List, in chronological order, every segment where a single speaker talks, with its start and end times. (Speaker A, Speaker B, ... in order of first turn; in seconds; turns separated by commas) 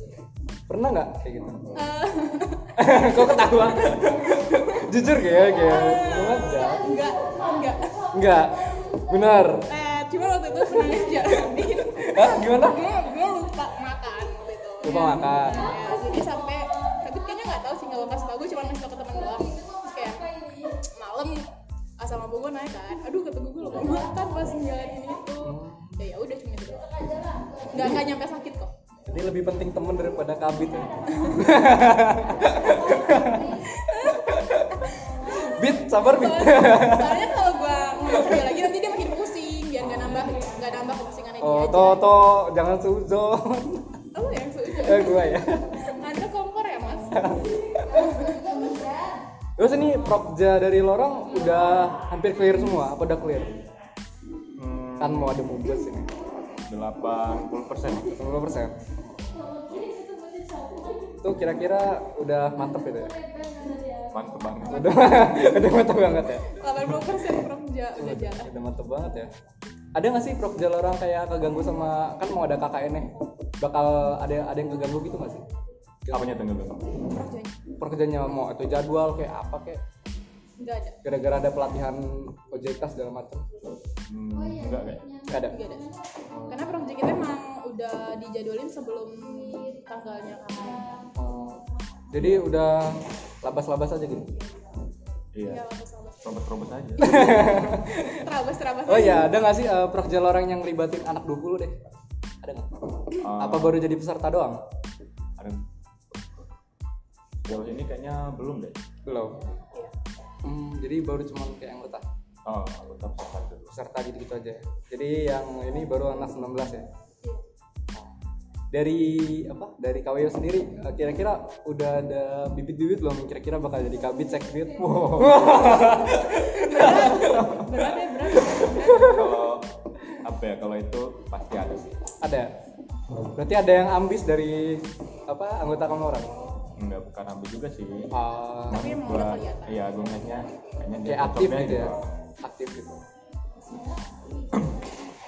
Speaker A: 0.7-1.7, Speaker B: 1.7-4.8, Speaker A: 2.8-6.9, Speaker B: 5.5-8.1, Speaker A: 8.1-9.6, Speaker B: 9.7-21.4, Speaker A: 10.9-12.8, Speaker A: 14.8-15.9, Speaker B: 22.0-26.9, Speaker A: 25.4-26.0, Speaker B: 27.7-28.7, Speaker A: 27.7-28.0, Speaker A: 29.1-37.3, Speaker B: 31.1-31.5, Speaker B: 33.6-42.1, Speaker A: 38.1-38.5, Speaker A: 41.4-43.9, Speaker B: 44.1-45.4, Speaker A: 44.8-45.9, Speaker B: 45.9-47.3, Speaker A: 47.1-48.1, Speaker B: 47.9-48.8, Speaker A: 49.6-53.6, Speaker C: 54.6-55.4, Speaker A: 55.0-56.1, Speaker C: 56.7-58.2, Speaker A: 58.2-58.8, Speaker C: 59.7-59.9, Speaker A: 61.2-63.1, Speaker C: 64.1-64.9, Speaker A: 64.7-66.6, Speaker B: 64.8-65.5, Speaker B: 66.4-68.5, Speaker A: 68.0-69.3, Speaker A: 70.0-75.4, Speaker A: 76.1-76.5, Speaker C: 76.1-76.9, Speaker B: 77.1-77.6, Speaker A: 77.8-79.8, Speaker B: 80.6-81.0, Speaker A: 81.0-83.4, Speaker C: 84.1-85.1, Speaker A: 85.3-85.6, Speaker B: 85.5-85.9, Speaker B: 86.5-90.9, Speaker A: 91.2-94.3, Speaker C: 92.2-92.5, Speaker C: 95.3-95.6, Speaker B: 95.4-96.4, Speaker C: 96.2-97.2, Speaker A: 97.0-98.2, Speaker B: 97.0-99.3, Speaker A: 98.9-101.7, Speaker A: 102.4-104.6, Speaker C: 103.2-103.9, Speaker C: 107.5-108.8, Speaker A: 109.1-109.4, Speaker A: 110.4-112.0, Speaker C: 112.5-113.7, Speaker A: 113.7-116.8, Speaker A: 118.7-129.3, Speaker C: 124.8-125.7, Speaker B: 126.3-129.4, Speaker C: 129.1-129.7, Speaker C: 130.2-131.9, Speaker A: 132.2-132.5, Speaker A: 133.3-136.4, Speaker C: 136.8-138.1, Speaker A: 138.1-138.9, Speaker C: 138.7-142.0, Speaker B: 138.7-139.8, Speaker A: 141.0-143.0